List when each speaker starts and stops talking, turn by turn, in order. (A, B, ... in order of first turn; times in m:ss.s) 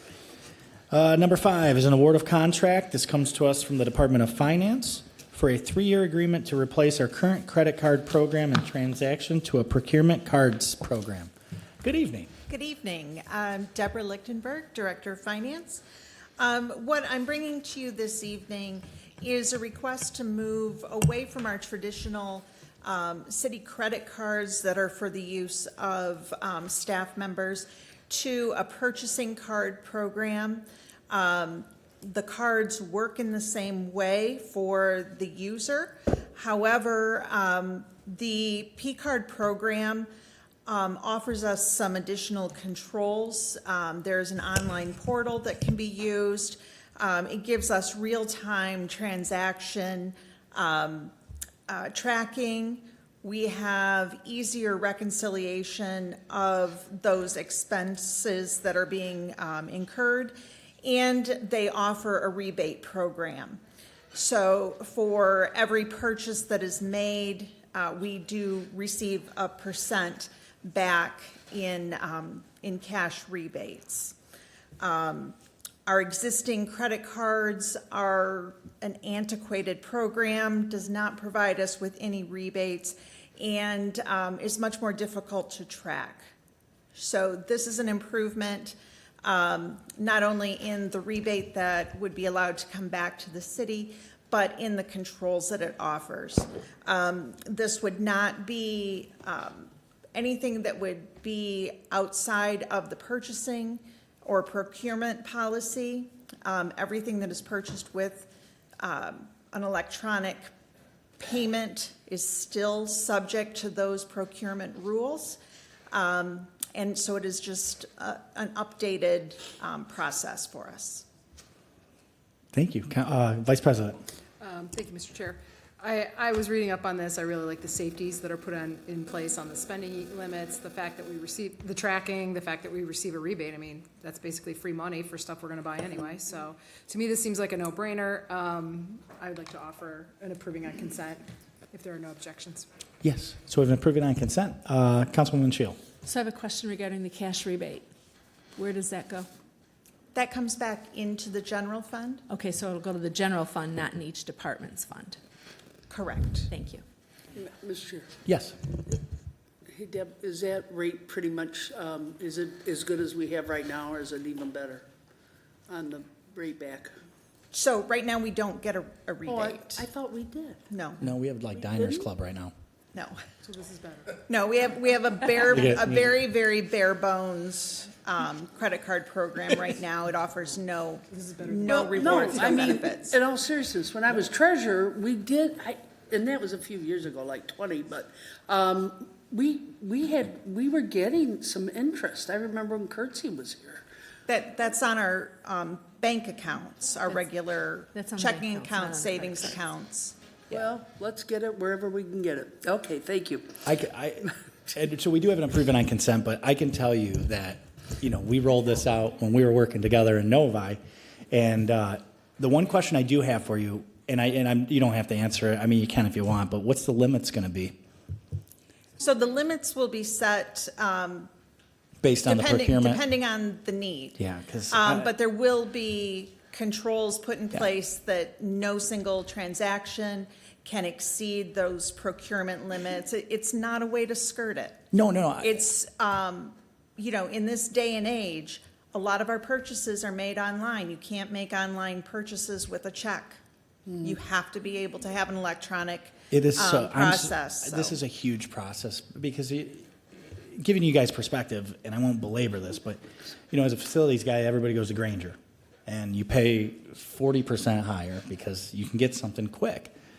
0:00.9-0:12.3 A
0:12.5-0:15.8 B
0:16.4-0:40.1 B
0:40.7-0:51.1 B
0:51.7-1:03.6 B
1:04.1-1:14.2 B
1:14.8-1:26.3 B
1:26.9-1:50.5 B
1:51.2-1:55.4 B
1:55.9-2:01.0 B
2:02.5-2:04.0 A
2:04.4-2:22.7 C
2:23.0-2:25.8 A
2:26.0-2:27.9 D
2:28.6-2:29.3 D
2:30.1-2:32.2 B
2:32.3-2:35.2 D
2:35.9-2:36.5 B
2:36.5-2:36.8 D
2:37.4-2:38.2 E
2:38.2-2:38.6 A
2:39.7-2:44.9 E
2:45.7-2:46.9 E
2:47.5-2:49.8 B
2:49.3-2:50.6 E
2:50.7-2:51.0 B
2:51.0-2:52.5 A
2:51.7-2:52.0 E
2:52.9-2:53.2 B
2:53.4-2:54.2 C
2:54.3-3:03.2 B
2:55.5-2:56.1 A
3:01.1-3:02.6 C
3:02.0-3:13.8 E
3:14.3-3:20.2 B
3:18.0-3:19.5 D
3:20.5-3:23.5 E
3:23.6-3:30.8 A
3:31.3-3:37.8 A
3:39.0-3:41.3 B
3:42.0-3:43.0 A
3:42.2-3:54.8 B
3:44.2-3:45.1 A
3:54.9-3:55.5 A
3:55.4-4:03.4 B
4:04.0-4:08.0 B
4:06.3-4:19.9 A